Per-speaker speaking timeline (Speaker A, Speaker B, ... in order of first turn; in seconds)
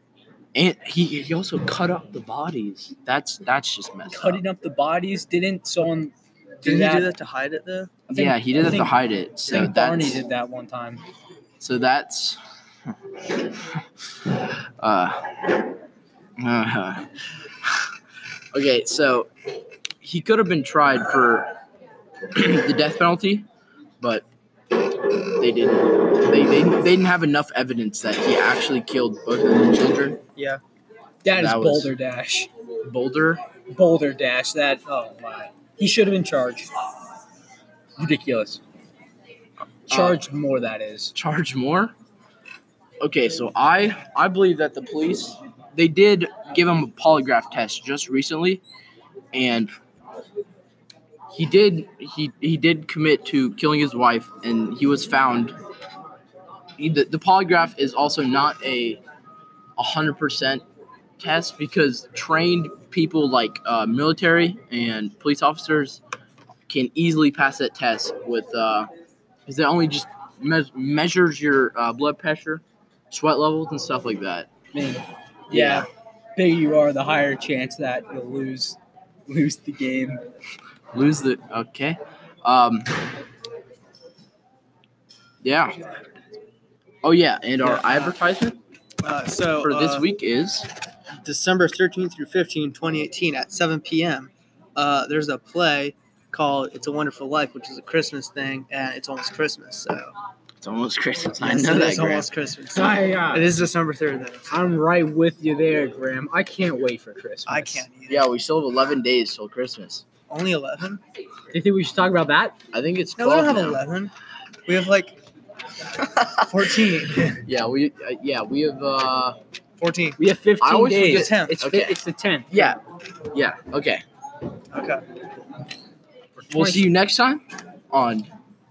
Speaker A: 0.6-4.4, 8.1-10.2, 11.6-12.4, 14.4-15.3, 16.4-17.1, 18.5-19.3, 20.0-21.5, 22.3-23.5, 24.0-24.3, 25.3-30.2, 31.3-31.9, 32.8-33.4, 39.9-40.2, 41.1-41.9, 43.0-48.6, 49.3-49.7, 51.3-55.5, 56.8-59.0, 59.8-60.6, 61.2-66.0, 66.7-68.9, 69.5-74.5, 75.5-75.9, 80.9-82.9, 85.4-85.8, 87.0-88.6, 89.6-90.7, 100.6-102.3, 108.1-110.1, 112.7-113.8, 117.4-119.4, 120.6-122.0, 122.5-122.8, 123.3-124.0, 126.5-128.3
Speaker B: 4.1-7.1, 8.1-9.0, 9.5-11.0, 31.2-32.5, 33.7-36.7, 38.0-38.6, 39.9-41.1, 74.7-80.2, 102.7-103.6, 104.5-107.9, 111.5-112.6, 120.2-122.7, 126.4-126.9
Speaker C: 6.6-8.0, 30.4-30.6, 87.6-88.2, 89.0-90.1, 91.2-100.1, 101.4-104.6, 107.5-108.3, 110.3-111.0, 113.2-114.1, 114.7-115.2, 116.2-117.4, 119.8-120.2, 121.0-121.6, 124.7-125.0